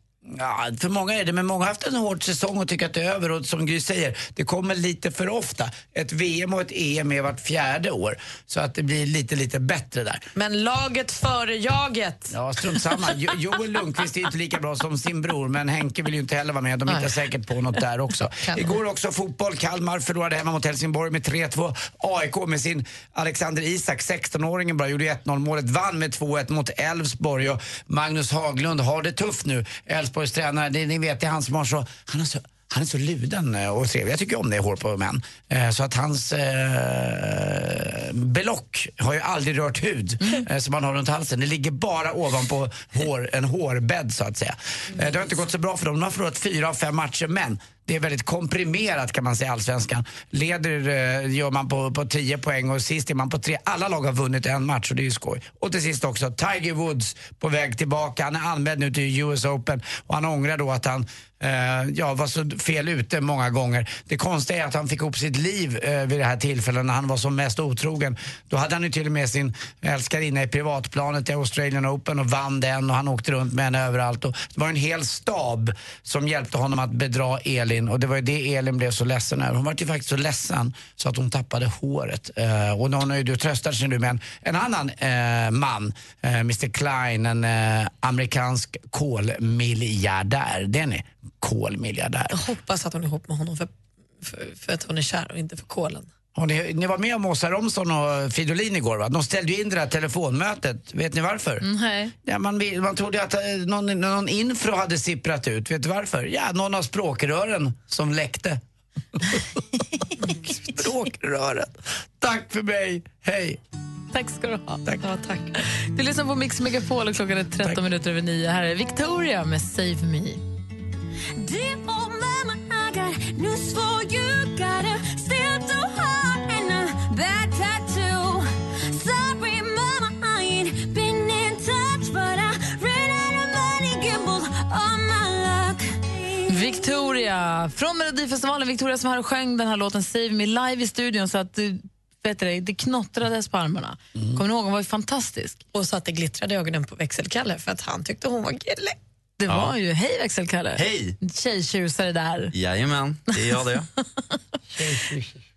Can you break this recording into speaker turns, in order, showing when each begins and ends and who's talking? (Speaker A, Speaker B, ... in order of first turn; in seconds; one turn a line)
Speaker A: 0.3-10.2
Speaker B: 10.3-12.3
Speaker A: 12.3-92.4
Speaker B: 92.3-93.7
Speaker B: 94.2-96.1
Speaker A: 96.3-101.7
Speaker C: 101.6-102.1
Speaker A: 102.2-108.6
Speaker A: 110.3-113.6
Speaker C: 114.1-114.8
Speaker B: 115.0-115.5
Speaker C: 115.6-120.4
Speaker D: 121.4-137.0
Speaker C: 136.5-145.6
Speaker A: 144.2-144.4
Speaker B: 145.7-149.0
Speaker C: 149.4-152.5
Speaker E: 149.5-149.8
Speaker E: 150.8-151.2
Speaker E: 152.5-153.9
Speaker A: 154.8-155.3